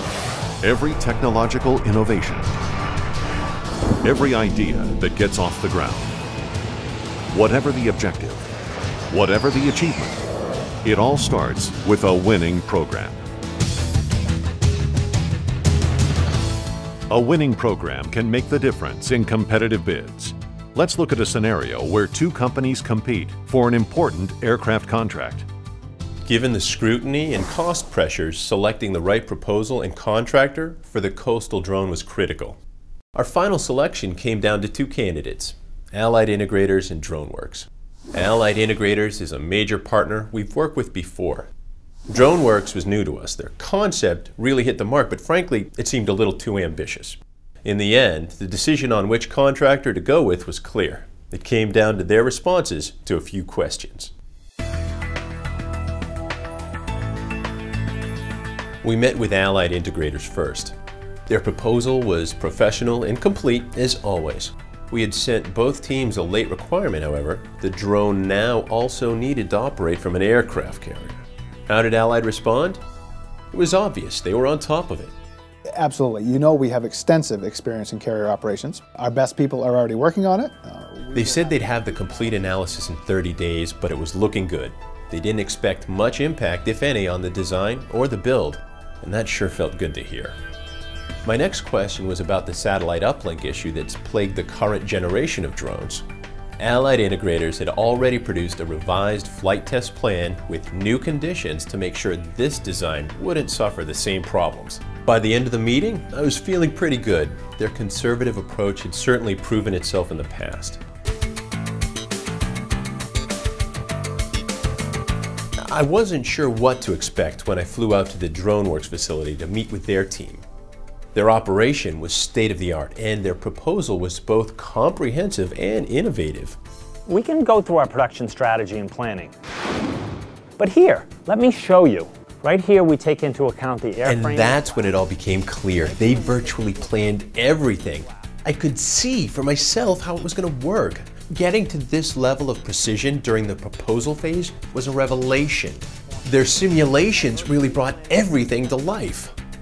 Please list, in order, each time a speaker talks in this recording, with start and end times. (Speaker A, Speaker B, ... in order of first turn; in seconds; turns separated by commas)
Speaker A: 0.6-2.5, Speaker A: 4.0-6.1, Speaker A: 7.3-8.5, Speaker A: 9.1-10.2, Speaker A: 10.8-13.2, Speaker A: 17.1-25.4, Speaker B: 26.2-32.6, Speaker B: 33.1-41.5, Speaker B: 42.1-54.1, Speaker B: 58.8-60.7, Speaker B: 61.3-71.2, Speaker B: 71.7-72.8, Speaker B: 73.5-75.1, Speaker C: 75.8-81.3, Speaker B: 81.1-90.3, Speaker B: 91.2-96.0, Speaker B: 96.6-110.8, Speaker B: 115.7-120.4, Speaker B: 121.1-126.6, Speaker D: 127.1-129.3, Speaker D: 130.6-134.9, Speaker B: 134.0-149.3, Speaker D: 136.0-137.1, Speaker D: 147.2-148.8